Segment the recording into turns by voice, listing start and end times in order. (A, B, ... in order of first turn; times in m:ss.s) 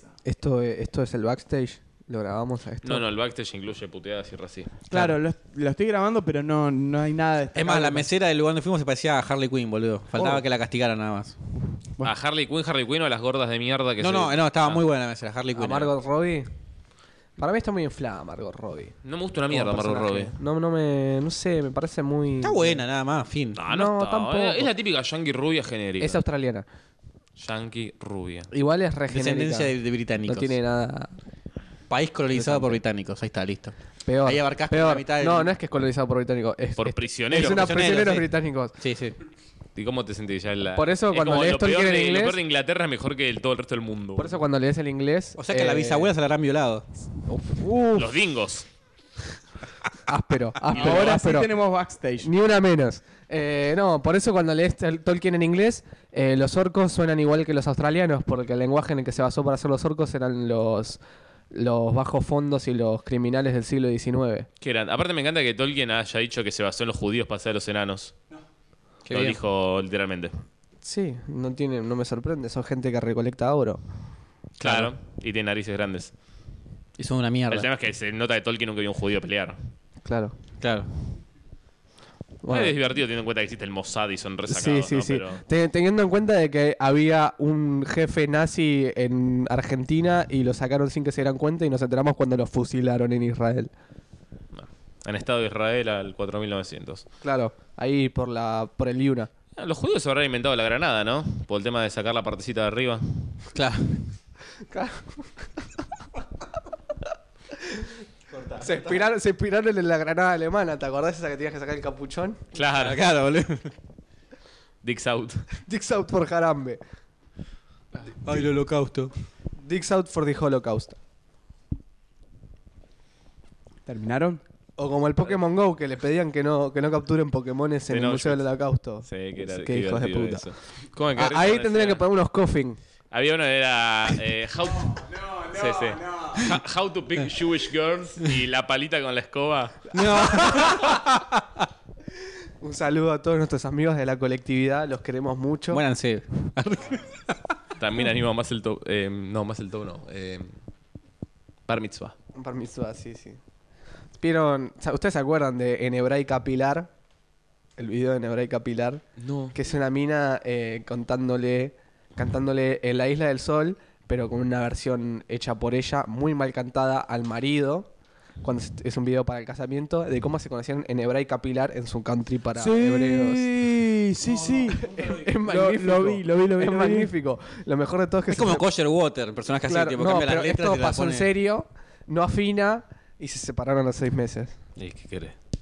0:00.2-0:03.0 A
0:02.8-0:04.7 B
0:04.9-0:08.1 C
0:04.9-0:05.2 D
0:07.5-0:11.3 D
0:12.0-0:14.8 B
0:14.0-0:16.0 D
0:15.6-0:16.5 A
0:17.4-0:19.0 A
0:19.0-0:20.3 B
0:19.5-0:22.8 A
0:22.4-0:23.6 D
0:23.6-0:26.2 B
0:23.7-0:24.7 A
0:26.0-0:26.7 A
0:27.4-0:28.5 B
0:28.5-0:31.2 A
0:29.1-0:30.6 D
0:31.9-0:35.5 D
0:32.3-0:32.8 A
0:34.1-0:38.8 A
0:36.8-0:37.8 B
0:37.3-0:39.2 D
0:39.8-0:44.4 B
0:40.8-0:42.4 A
0:44.2-0:46.1 A
0:45.4-0:46.8 D
0:47.3-0:48.1 A
0:48.0-0:48.7 B
0:50.1-0:51.5 A
0:50.7-0:52.3 C
0:52.2-1:01.0 A
1:01.5-1:04.5 A
1:04.6-1:08.1 B
1:09.1-1:09.4 D
1:09.1-1:10.3 B
1:10.8-1:13.8 A
1:14.6-1:14.9 D
1:14.6-1:16.1 B
1:17.0-1:17.7 D
1:17.5-1:19.6 B
1:20.0-1:20.4 A
1:20.6-1:20.9 D
1:22.4-1:22.8 A
1:22.5-1:25.4 B
1:24.5-1:33.7 A
1:34.5-1:37.0 B
1:37.2-1:39.3 A
1:39.6-1:43.4 B
1:43.6-1:44.0 D
1:44.7-1:45.2 A
1:48.5-1:52.4 A
1:52.5-1:53.0 B
1:52.7-1:53.7 D
1:54.8-1:55.4 B
1:55.6-1:56.8 A
1:58.2-1:59.1 D
1:59.6-2:01.0 A
2:03.9-2:04.4 C
2:04.8-2:10.5 A
2:07.9-2:12.0 B
2:11.2-2:12.8 A
2:13.1-2:20.0 B
2:15.5-2:16.3 C
2:19.9-2:21.2 D
2:20.2-2:20.9 A
2:22.6-2:25.8 A
2:25.7-2:27.5 D
2:27.8-2:30.6 B
2:31.7-2:32.2 B
2:32.4-2:33.4 A
2:34.2-2:36.9 A
2:37.8-2:39.0 A
2:39.2-2:39.5 B
2:39.5-2:47.9 A
2:48.4-2:53.5 A
2:52.6-2:57.1 C
2:54.7-2:58.7 A
2:58.3-3:01.3 D
2:59.6-3:04.6 A
3:04.8-3:05.4 B